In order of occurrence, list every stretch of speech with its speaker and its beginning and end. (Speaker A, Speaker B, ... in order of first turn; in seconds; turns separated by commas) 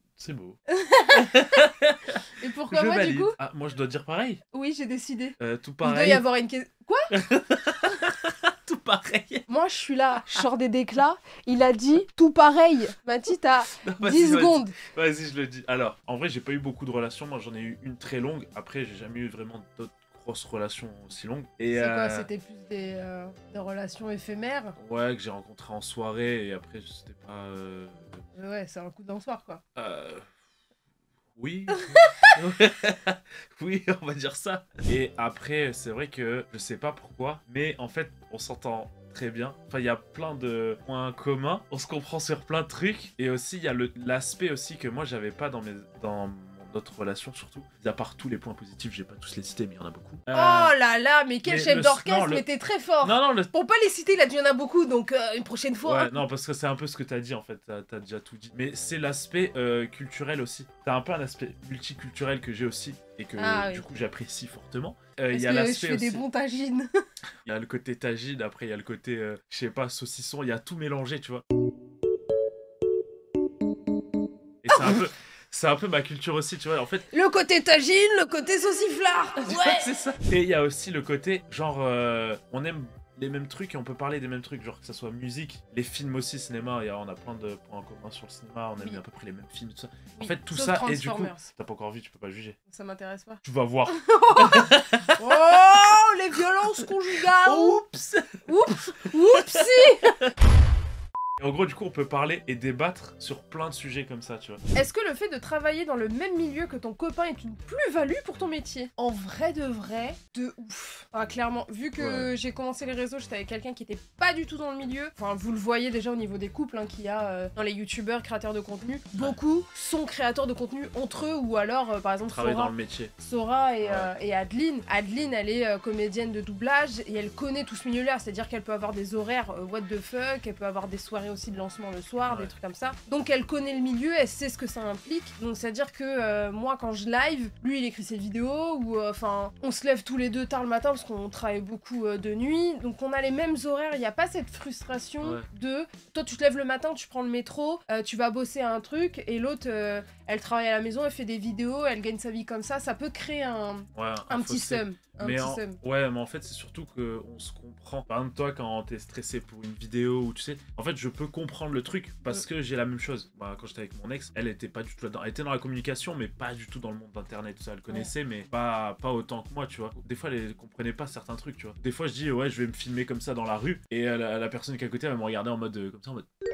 Speaker A: 0.2-0.6, Speaker B: 0.7-1.6, Speaker A: 1.1-4.4, Speaker B: 2.4-3.3, Speaker B: 4.5-7.1, Speaker A: 5.4-6.2, Speaker A: 7.1-9.5, Speaker B: 9.5-14.8, Speaker A: 13.7-22.3, Speaker B: 21.7-24.8, Speaker A: 24.8-28.2, Speaker B: 28.4-29.6, Speaker A: 29.8-30.3, Speaker A: 31.4-50.7, Speaker B: 31.9-32.3, Speaker B: 50.3-56.2, Speaker A: 51.4-52.4, Speaker A: 53.0-53.5, Speaker A: 55.8-66.2, Speaker B: 63.4-63.8, Speaker B: 65.3-66.9, Speaker A: 67.4-71.4, Speaker A: 74.6-77.0, Speaker B: 77.1-79.9, Speaker A: 79.4-92.6, Speaker B: 90.2-91.5, Speaker B: 92.7-97.8, Speaker A: 93.4-95.6, Speaker A: 97.3-98.7, Speaker B: 98.5-100.2, Speaker A: 99.3-100.3, Speaker A: 101.4-104.6, Speaker B: 104.7-155.8, Speaker A: 112.0-112.3, Speaker A: 122.2-123.1, Speaker A: 123.8-124.1, Speaker A: 132.2-132.5, Speaker A: 153.9-176.2